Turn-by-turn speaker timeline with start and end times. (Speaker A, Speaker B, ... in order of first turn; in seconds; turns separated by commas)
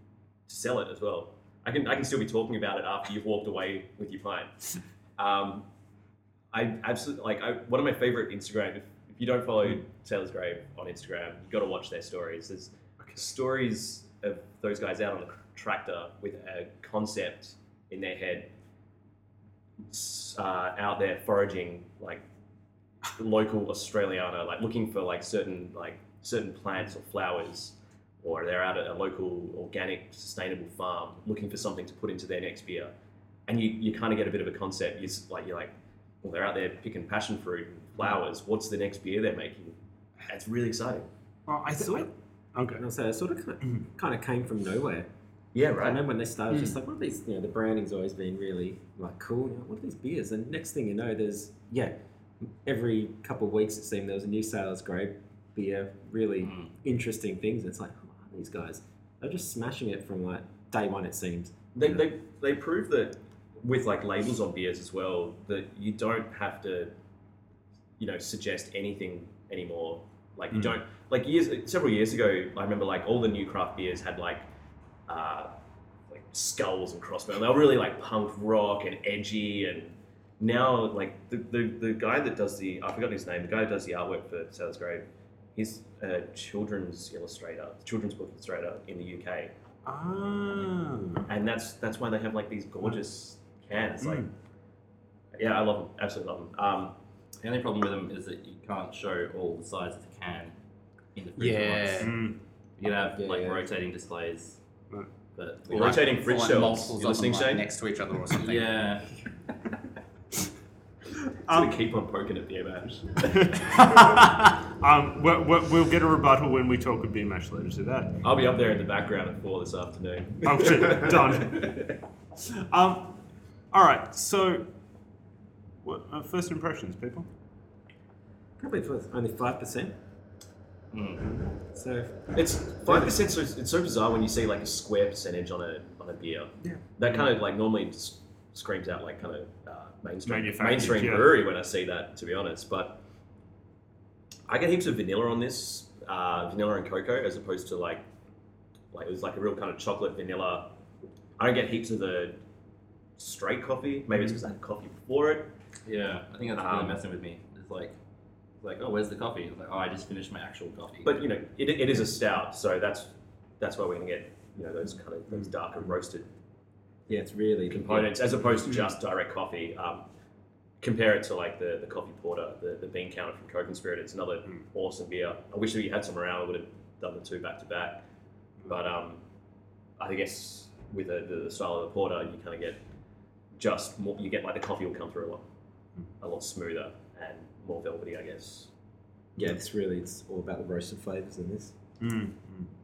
Speaker A: 0.5-4.6, Speaker A: 5.2-5.7, Speaker A: 6.5-18.5, Speaker A: 19.9-22.2, Speaker A: 23.1-32.9, Speaker A: 33.5-41.1, Speaker B: 41.5-42.8, Speaker C: 41.8-42.1, Speaker C: 42.7-45.1, Speaker A: 45.5-46.0, Speaker C: 45.8-51.9, Speaker C: 52.5-61.5, Speaker D: 56.4-56.7, Speaker A: 61.8-66.9, Speaker A: 68.0-74.5, Speaker A: 75.1-75.5, Speaker A: 76.1-89.5, Speaker B: 89.9-91.3, Speaker A: 91.3-94.3, Speaker B: 94.0-94.3, Speaker A: 95.3-97.0, Speaker D: 97.4-100.5, Speaker D: 101.2-102.2, Speaker E: 101.4-102.2, Speaker B: 102.0-102.4, Speaker D: 102.8-104.6, Speaker C: 103.2-103.7, Speaker D: 105.3-106.0, Speaker A: 105.7-107.7, Speaker E: 105.7-108.7, Speaker D: 108.4-109.1, Speaker B: 111.5-111.7, Speaker A: 111.5-113.8, Speaker B: 113.3-118.2, Speaker A: 118.2-121.9, Speaker B: 120.4-123.2, Speaker B: 123.7-124.7, Speaker B: 125.8-127.3, Speaker C: 128.6-129.9, Speaker D: 130.9-131.4, Speaker C: 131.5-133.1, Speaker A: 132.3-143.0, Speaker B: 136.6-137.3, Speaker B: 140.3-141.4, Speaker A: 144.5-148.0, Speaker A: 148.9-150.7, Speaker A: 151.4-152.4, Speaker A: 153.2-155.5, Speaker D: 155.8-158.0, Speaker A: 156.6-157.0, Speaker D: 158.6-161.2, Speaker A: 161.1-166.3, Speaker C: 167.1-168.2, Speaker A: 167.7-170.1, Speaker A: 170.8-178.1, Speaker A: 178.7-179.2, Speaker A: 180.0-182.8, Speaker A: 183.5-185.4, Speaker A: 186.2-188.7, Speaker C: 189.4-191.7, Speaker B: 192.0-192.7